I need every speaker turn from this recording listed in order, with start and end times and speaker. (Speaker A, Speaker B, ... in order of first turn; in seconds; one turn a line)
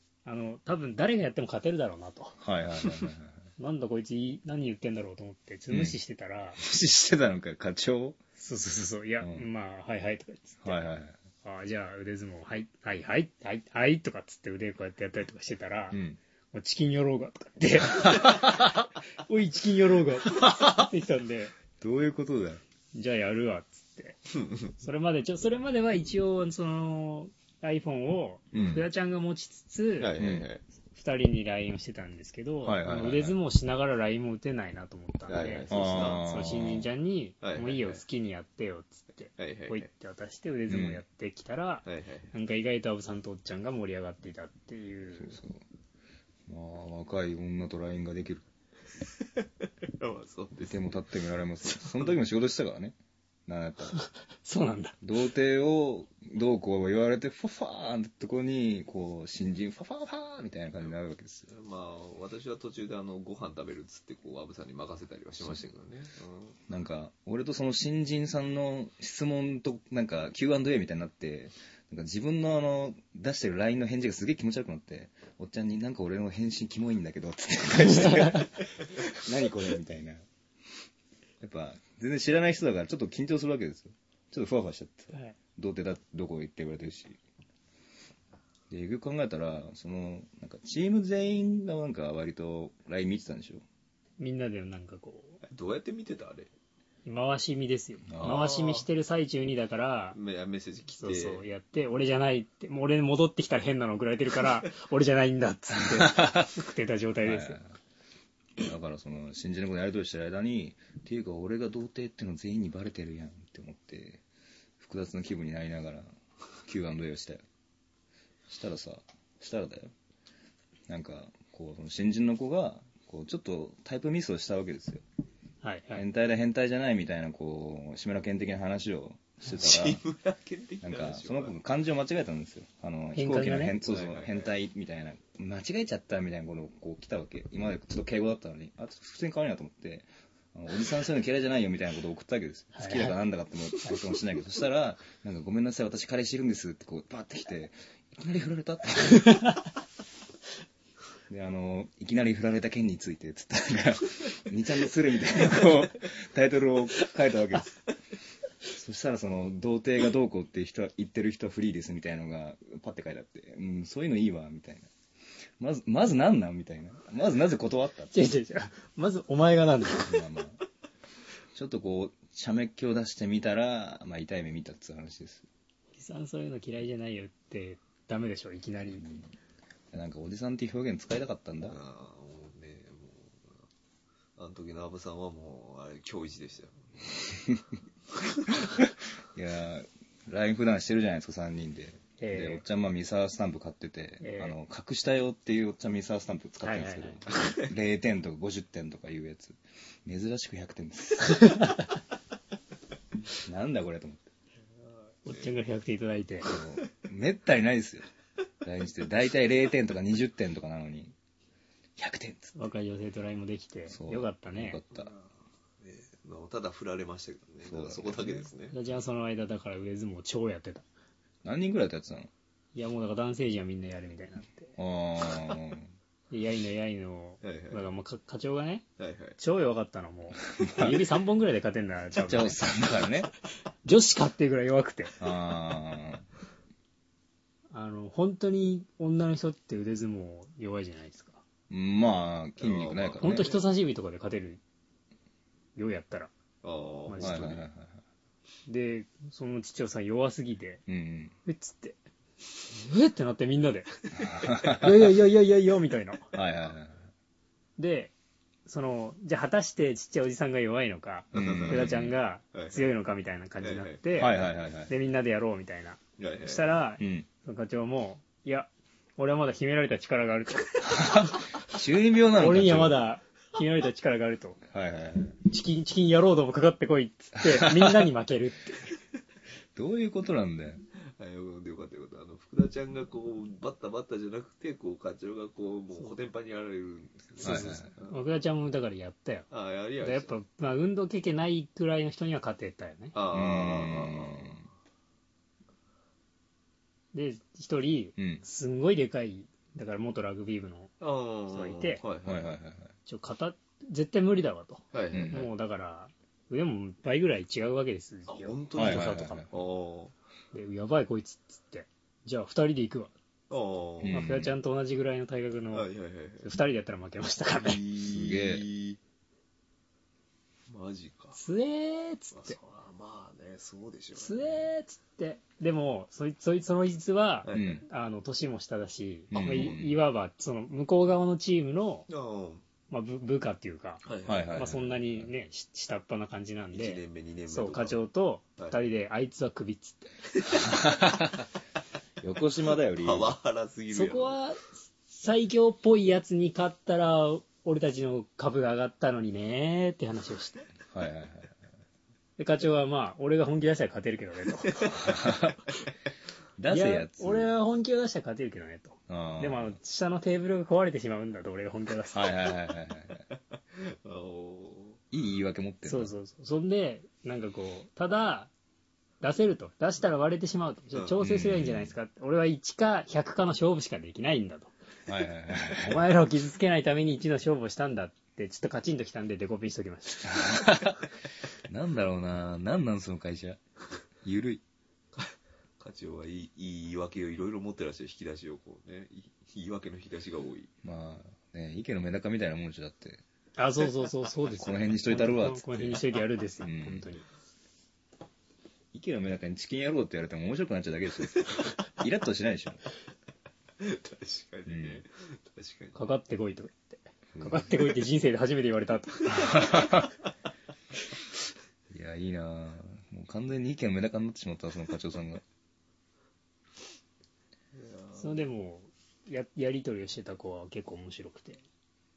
Speaker A: 0.2-2.4
Speaker B: 2.4-3.5
Speaker A: 3.6-6.6
Speaker B: 5.7-6.0
Speaker B: 6.6-8.2
Speaker A: 8.4-10.8
Speaker B: 10.6-11.2
Speaker A: 11.4-16.0
Speaker B: 15.9-16.2
Speaker A: 16.5-21.5
Speaker B: 18.0-18.5
Speaker B: 20.4-20.7
Speaker B: 21.8-22.6
Speaker A: 22.9-24.2
Speaker A: 24.8-30.1
Speaker B: 28.5-28.9
Speaker C: 30.0-30.6
Speaker B: 30.2-30.5
Speaker A: 30.9-45.4
Speaker B: 32.6-33.4
Speaker C: 35.3-36.3
Speaker B: 35.7-36.9
Speaker C: 37.4-38.0
Speaker C: 39.4-39.9
Speaker B: 40.7-41.0
Speaker C: 41.9-42.3
Speaker B: 45.1-45.6
Speaker B: 46.5-48.5
Speaker C: 49.2-51.0
Speaker B: 50.6-54.0
Speaker A: 53.9-55.0
Speaker B: 55.0-61.5
Speaker C: 61.5-66.6
Speaker B: 66.7-80.2
Speaker A: 78.0-78.5
Speaker B: 81.4-87.2
Speaker B: 88.7-93.6
Speaker A: 94.2-95.4
Speaker C: 95.4-96.5
Speaker A: 97.0-100.2
Speaker B: 98.1-98.4
Speaker C: 98.2-98.9
Speaker C: 100.1-101.5
Speaker A: 101.0-107.6
Speaker B: 105.8-106.6
Speaker B: 107.2-107.8
Speaker B: 108.6-114.2
Speaker B: 114.8-117.4
Speaker B: 118.5-119.9
Speaker B: 120.9-125.0
Speaker A: 125.6-126.0
Speaker B: 126.0-130.0
Speaker C: 129.6-131.6
Speaker B: 130.8-149.6
Speaker A: 133.2-133.8
Speaker C: 133.8-134.5
Speaker A: 142.8-143.2
Speaker B: 151.3-157.9
Speaker B: 158.7-164.9
Speaker B: 165.6-168.1
Speaker A: 168.1-170.2
Speaker B: 170.0-170.6
Speaker B: 171.5-175.4
Speaker A: 176.0-179.1
Speaker B: 179.0-179.3
Speaker B: 179.9-181.8
Speaker C: 181.7-183.5
Speaker C: 184.4-187.4
Speaker C: 188.2-188.7
Speaker B: 188.6-201.8
Speaker A: 192.2-192.6
Speaker A: 194.2-194.6
Speaker A: 196.6-197.2
Speaker C: 197.4-197.7
Speaker A: 201.4-201.7
Speaker B: 203.3-204.2
Speaker A: 205.2-206.5
Speaker C: 205.3-205.5
Speaker B: 206.4-208.1
Speaker B: 208.6-211.1
Speaker B: 212.0-212.6
Speaker A: 212.6-214.8
Speaker B: 213.9-215.1
Speaker C: 214.9-215.2
Speaker C: 215.9-218.8
Speaker B: 217.7-218.5
Speaker A: 218.7-220.9
Speaker B: 221.4-222.3
Speaker A: 222.8-224.7
Speaker B: 224.8-225.9
Speaker A: 226.3-228.8
Speaker C: 227.4-227.9
Speaker C: 229.0-229.4
Speaker A: 229.4-232.6
Speaker B: 230.5-231.1
Speaker B: 232.2-233.3
Speaker A: 233.8-235.1
Speaker B: 235.2-236.3
Speaker A: 237.7-241.4
Speaker B: 241.7-243.5
Speaker C: 242.6-243.6
Speaker A: 243.2-244.6
Speaker A: 245.8-246.3
Speaker C: 246.6-247.7
Speaker A: 247.1-247.5
Speaker B: 247.2-248.0
Speaker A: 248.7-250.8
Speaker B: 250.9-251.3
Speaker A: 251.4-252.0
Speaker A: 252.7-256.3
Speaker B: 254.2-255.2
Speaker B: 256.3-257.1
Speaker A: 257.8-258.1
Speaker A: 258.7-271.4
Speaker C: 261.3-261.9
Speaker B: 261.3-262.2
Speaker C: 262.5-262.9
Speaker C: 263.6-264.5
Speaker B: 264.2-264.9
Speaker C: 266.2-266.8
Speaker B: 267.0-267.3
Speaker B: 270.8-273.0
Speaker A: 272.4-274.6
Speaker B: 274.7-275.4
Speaker A: 275.4-278.9
Speaker B: 277.4-278.1
Speaker B: 279.8-280.8
Speaker C: 281.2-288.2
Speaker A: 287.4-289.5
Speaker B: 287.4-287.9
Speaker C: 289.5-290.4
Speaker A: 290.0-293.1
Speaker C: 293.1-294.6
Speaker B: 293.3-294.6
Speaker A: 297.1-300.9
Speaker B: 298.2-298.4
Speaker C: 301.0-302.6
Speaker A: 301.5-302.0
Speaker B: 302.2-302.9
Speaker A: 303.1-309.5
Speaker C: 304.9-305.5
Speaker B: 305.1-305.5
Speaker C: 308.3-310.1
Speaker B: 308.8-309.5
Speaker A: 310.5-313.1
Speaker C: 313.5-314.3
Speaker B: 314.0-314.5
Speaker A: 314.1-315.9
Speaker C: 315.7-316.5
Speaker A: 316.4-317.8
Speaker C: 317.6-319.0
Speaker B: 318.1-318.6
Speaker C: 320.7-321.4
Speaker A: 321.4-322.6
Speaker C: 322.3-324.7
Speaker A: 324.2-332.1
Speaker C: 327.4-327.8
Speaker B: 327.5-327.9
Speaker B: 329.3-330.0
Speaker C: 332.1-332.6
Speaker A: 332.9-340.1
Speaker C: 334.0-334.7
Speaker B: 334.3-335.3
Speaker C: 336.7-338.1
Speaker C: 340.4-340.6
Speaker B: 340.6-341.4
Speaker B: 342.2-343.4
Speaker C: 342.9-344.4
Speaker A: 343.9-350.7
Speaker B: 350.9-351.6
Speaker A: 352.4-355.0
Speaker C: 354.7-355.0
Speaker B: 354.9-355.6
Speaker B: 356.6-357.5
Speaker A: 356.7-362.4
Speaker B: 359.1-359.8
Speaker B: 362.1-363.2
Speaker C: 363.8-365.0
Speaker B: 365.1-366.1
Speaker A: 365.9-368.5
Speaker A: 369.2-374.7
Speaker C: 370.9-371.2
Speaker B: 371.2-371.9
Speaker B: 375.1-376.1
Speaker A: 375.8-380.7
Speaker B: 380.2-381.0
Speaker B: 381.6-383.6
Speaker B: 384.2-384.6
Speaker C: 385.1-390.7
Speaker B: 390.8-393.2
Speaker A: 393.6-397.3
Speaker B: 394.5-396.1
Speaker B: 396.6-397.1
Speaker B: 398.9-402.8
Speaker C: 403.8-406.1
Speaker B: 404.7-405.0
Speaker A: 406.0-410.0
Speaker B: 407.3-407.6
Speaker B: 409.5-410.1
Speaker B: 411.9-415.4
Speaker C: 417.7-418.4
Speaker A: 418.2-421.6